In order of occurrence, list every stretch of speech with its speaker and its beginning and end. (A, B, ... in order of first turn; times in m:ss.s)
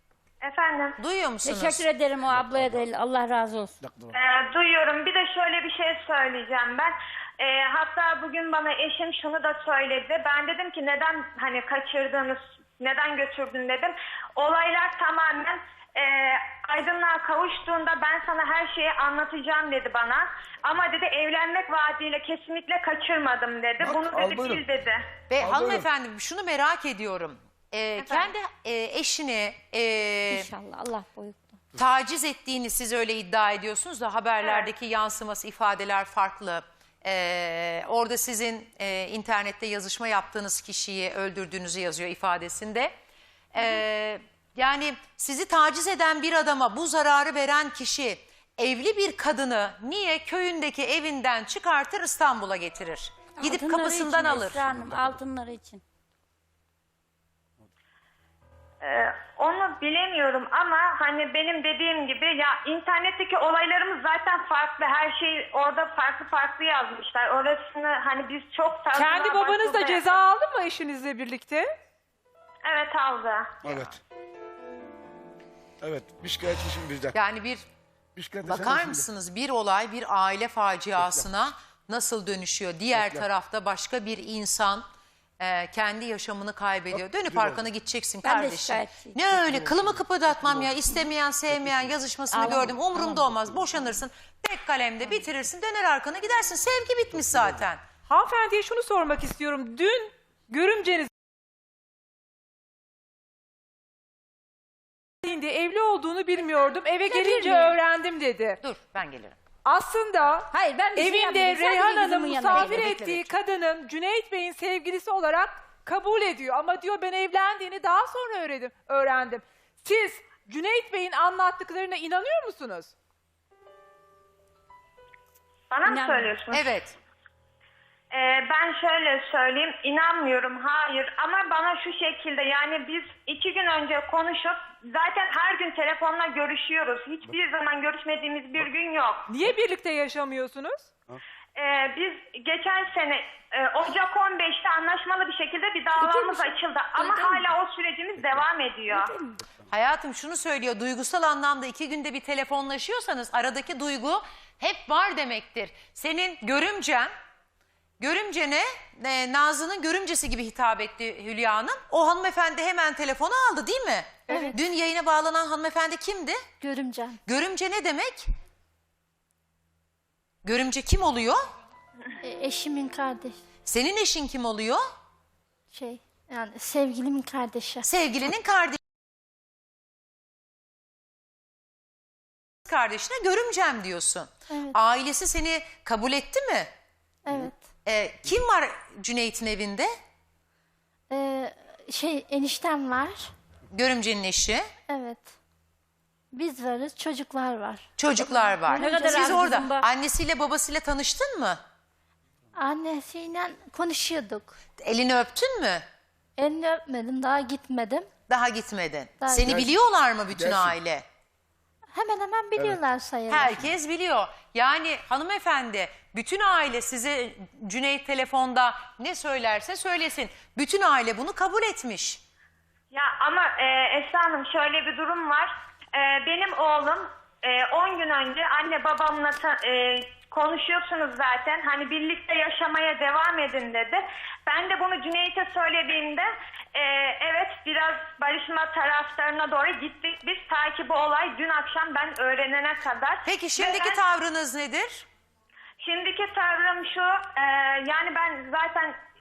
0:00.4-0:01.0 A
0:01.0-0:01.8 B
0:01.4-0:03.8 C
0:03.8-0:04.1 D
0:04.1-0:25.0 A
0:23.8-0:24.6 D
0:25.3-0:30.5 B
0:25.4-0:25.8 D
0:30.3-0:31.6 C
0:31.8-0:42.9 B
0:34.4-0:34.7 A
0:43.5-0:54.7 B
0:53.4-0:55.8 C
0:58.8-1:10.2 A
1:08.9-1:11.7 E
1:12.6-1:13.6 A
1:13.6-1:14.0 D
1:13.6-1:13.9 B
1:15.8-1:17.2 D
1:17.1-1:17.6 B
1:18.2-1:19.0 D
1:18.5-1:24.8 B
1:22.9-1:23.2 D
1:25.4-1:37.8 B
1:27.1-1:27.6 D
1:28.2-1:29.4 C
1:29.6-1:30.7 D
1:32.3-1:33.3 C
1:38.1-1:41.1 E
1:45.2-1:48.6 E
1:48.6-1:49.4 B
1:49.6-2:02.9 E
1:50.5-1:52.8 C
1:52.5-1:53.3 B
2:05.7-2:06.6 A
2:05.8-2:06.4 C
2:06.5-2:07.0 B
2:08.1-2:19.3 A
2:19.3-2:20.9 E
2:21.6-2:29.1 A
2:26.0-2:27.5 C
2:28.9-2:29.4 C
2:29.7-2:37.1 B
2:38.0-2:46.4 B
2:44.3-2:44.6 E
2:44.3-2:44.6 F
2:46.6-2:47.2 F
2:47.2-2:48.2 B
2:50.4-2:51.4 B
2:52.2-2:53.4 F
2:53.6-2:54.8 B
2:55.7-2:57.8 F
2:57.8-2:58.8 B
3:02.6-3:06.7 B
3:04.5-3:04.8 F
3:07.2-3:07.6 F
3:07.8-3:09.9 B
3:11.1-3:13.3 F
3:13.7-3:14.6 B
3:14.9-3:15.3 F
3:16.3-3:19.5 F
3:18.0-3:21.6 B
3:18.8-3:19.8 C
3:22.6-3:24.6 F
3:24.8-3:25.8 B
3:26.4-3:28.1 F
3:28.3-3:31.0 B
3:29.2-3:29.5 F
3:29.4-3:29.7 D
3:30.3-3:30.8 D
3:31.9-3:33.6 F
3:33.3-3:42.2 B
3:42.9-4:04.0 A
4:03.2-4:05.0 B
4:05.8-4:09.0 A